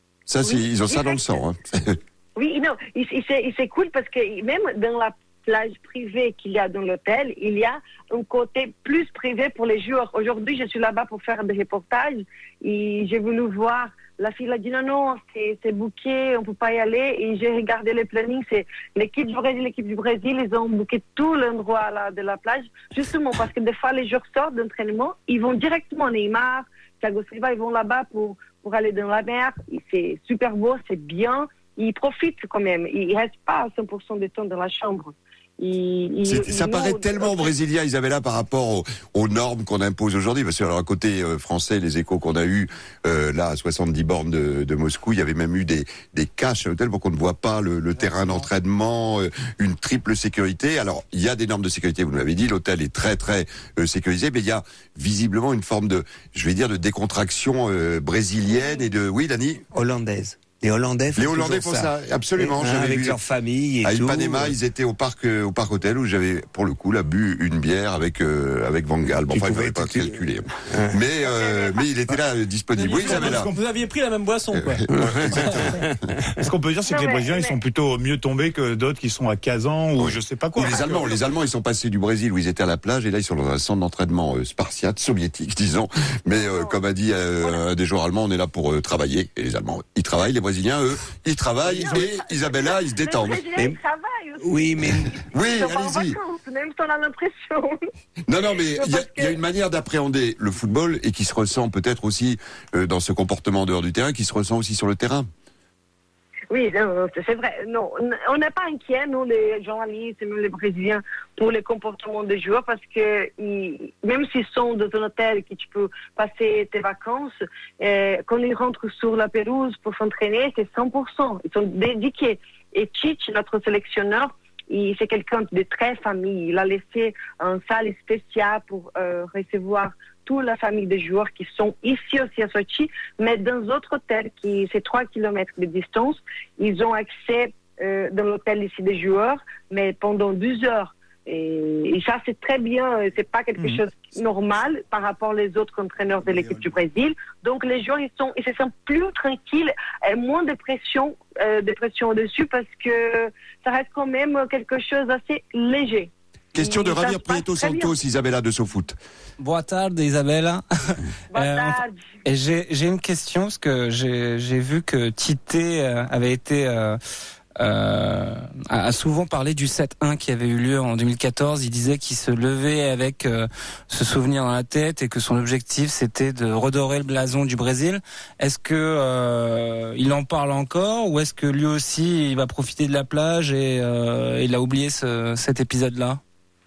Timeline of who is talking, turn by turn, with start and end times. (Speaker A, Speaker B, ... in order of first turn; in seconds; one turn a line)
Speaker A: 0.3-2.0
Speaker B: 0.4-1.3
Speaker B: 2.4-37.5
Speaker A: 36.2-59.6
Speaker C: 59.7-64.6
Speaker A: 61.2-63.2
Speaker A: 63.8-73.5
Speaker C: 69.3-70.9
Speaker B: 71.2-71.8
Speaker D: 72.8-74.8
Speaker E: 72.9-73.5
Speaker A: 74.5-75.9
Speaker C: 74.9-75.9
Speaker D: 75.3-75.7
Speaker E: 76.4-81.2
Speaker B: 76.9-77.6
Speaker A: 80.0-93.5
Speaker B: 86.3-86.8
Speaker B: 91.6-94.5
Speaker C: 94.4-95.2
Speaker A: 95.2-96.2
Speaker B: 95.4-97.8
Speaker A: 98.3-105.3
Speaker B: 98.5-99.4
Speaker B: 106.5-158.0
Speaker A: 156.6-159.0
Speaker F: 159.4-167.0
Speaker B: 161.3-162.0
Speaker F: 167.6-186.2